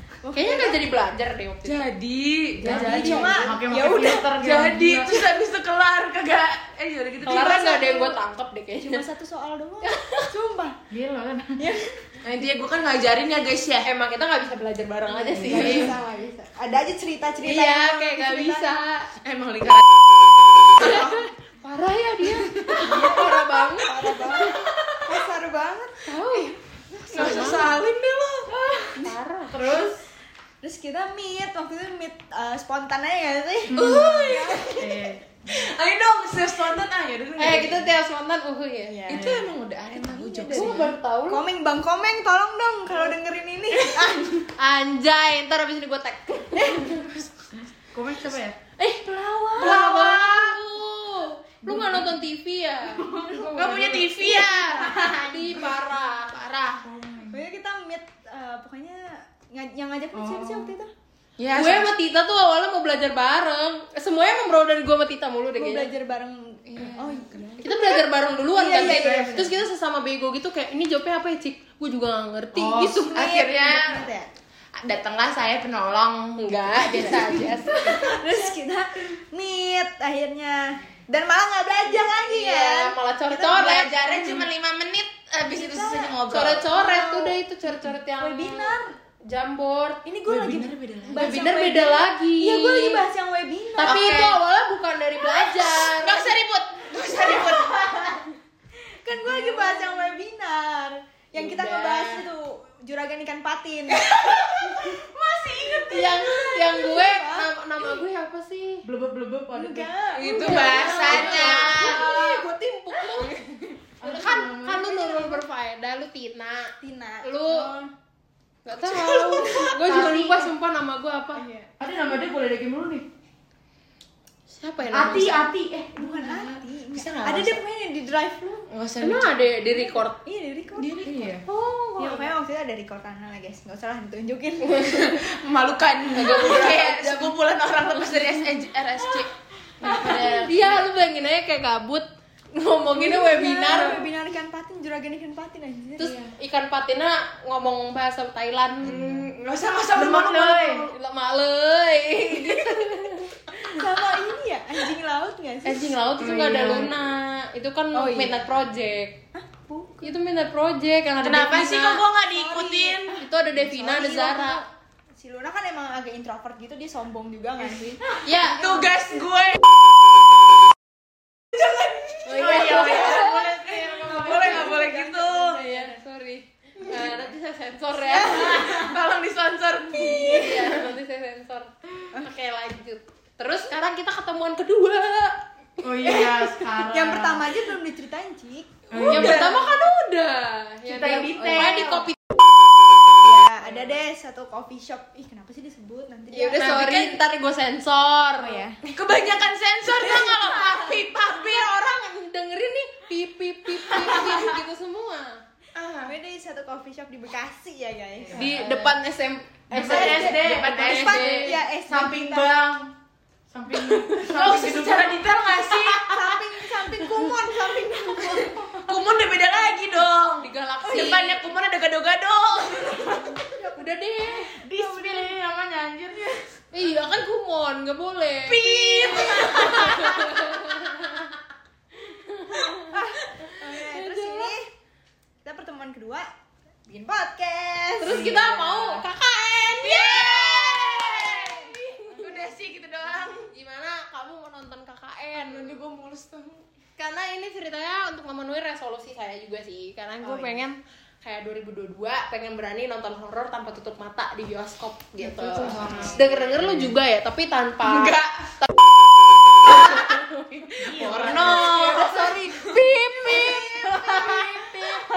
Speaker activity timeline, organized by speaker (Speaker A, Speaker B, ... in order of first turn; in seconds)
Speaker A: 0.2-0.8, 2.6-4.3, 8.8-10.8, 11.6-12.0, 15.2-18.8, 20.7-21.3, 22.6-26.2, 27.0-27.6, 30.6-35.1, 38.9-44.5, 46.5-47.0, 48.8-50.3, 53.3-55.4, 57.3-60.9, 65.5-69.6, 72.7-74.3, 78.0-84.4, 85.5-88.9, 90.0-94.2, 97.4-97.9, 98.8-107.9, 109.5-112.3, 116.8-117.9, 121.3-121.8, 125.9-128.7, 129.7-131.0, 132.0-135.2, 136.3-136.8, 139.8-140.2, 142.9-146.2, 153.7-156.7, 157.9-158.4, 159.3-160.1, 162.3-168.0, 174.6-175.9, 176.9-177.2, 178.0-178.7, 179.9-180.7, 186.6-189.4, 191.5-191.9, 193.2-197.1, 198.4-198.8, 206.1-208.6, 209.7-212.5, 215.9-218.8, 223.3-223.9, 224.7-225.2, 228.9-230.1, 232.7-234.7, 235.4-236.3, 236.9-238.6, 241.2-242.5, 250.2-250.5, 261.9-262.7, 263.3-264.9
Speaker B: 0.3-1.9, 7.2-9.1, 9.8-10.3, 13.8-15.9, 17.4-19.1, 20.7-24.6, 26.1-26.6, 27.1-27.8, 28.8-29.6, 37.4-39.1, 40.5-41.4, 44.6-47.1, 49.5-53.0, 54.2-56.8, 61.5-65.9, 67.6-73.2, 76.4-78.2, 82.1-84.0, 86.3-90.0, 91.1-93.1, 93.8-96.4, 101.3-102.3, 105.8-108.8, 110.2-117.7, 118.6-121.4, 124.5-125.5, 129.0-130.2, 131.5-132.3, 136.1-137.4, 139.8-144.1, 146.0-149.1, 150.9-153.8, 155.6-159.2, 160.0-162.1, 163.2-164.6, 168.2-168.8, 172.3-173.4, 175.4-178.9, 180.1-185.4, 186.1-186.3, 189.0-192.2, 196.3-198.7, 199.9-205.4, 208.3-211.6, 220.4-221.5, 223.6-224.6, 226.7-231.3, 232.1-234.5, 238.0-242.2, 243.4-245.8, 247.0-258.7, 259.6-260.2, 261.0-265.0
Speaker C: 1.6-8.2, 12.2-13.9, 15.5-15.9, 19.1-19.9, 24.5-25.0, 26.3-28.5, 33.7-34.9, 35.5-37.9, 39.1-40.9, 49.7-50.5, 53.5-55.4, 61.4-61.9, 66.7-67.6, 73.1-74.0, 74.8-78.1, 83.5-86.7, 90.2-91.4, 93.8-94.4, 95.4-98.2, 103.9-105.0, 105.6-105.8, 110.1-112.1, 118.8-120.0, 126.1-127.6, 128.7-129.5, 130.8-131.4, 134.7-139.3, 139.8-140.8, 148.8-150.9, 152.3-152.8, 161.2-163.2, 168.6-169.6, 171.5-175.6, 178.1-180.9, 189.1-189.6, 196.6-197.2, 198.8-202.0, 203.9-204.4, 205.8-206.1, 209.9-211.6, 214.2-216.2, 218.2-223.3, 228.4-230.4, 239.7-243.5, 245.3-246.6, 257.9-258.5, 259.6-264.8
Speaker D: 2.6-5.2, 10.9-11.6, 15.4-15.8, 29.5-30.0, 33.7-35.4, 39.1-39.5, 47.9-48.6, 51.6-52.1, 53.0-54.1, 56.8-57.4, 60.1-60.7, 68.8-69.5, 72.5-73.1, 108.8-109.9, 111.1-112.0, 114.0-115.4, 119.8-120.5, 121.8-123.1, 124.9-126.1, 131.0-131.4, 148.9-149.2, 149.9-150.9, 156.2-156.9, 172.3-174.9, 185.8-187.5, 188.9-189.6, 190.8-192.1, 208.3-208.9, 209.7-211.3, 211.8-212.9, 213.5-215.2, 224.6-226.5, 238.1-239.0, 255.2-256.9, 260.8-262.3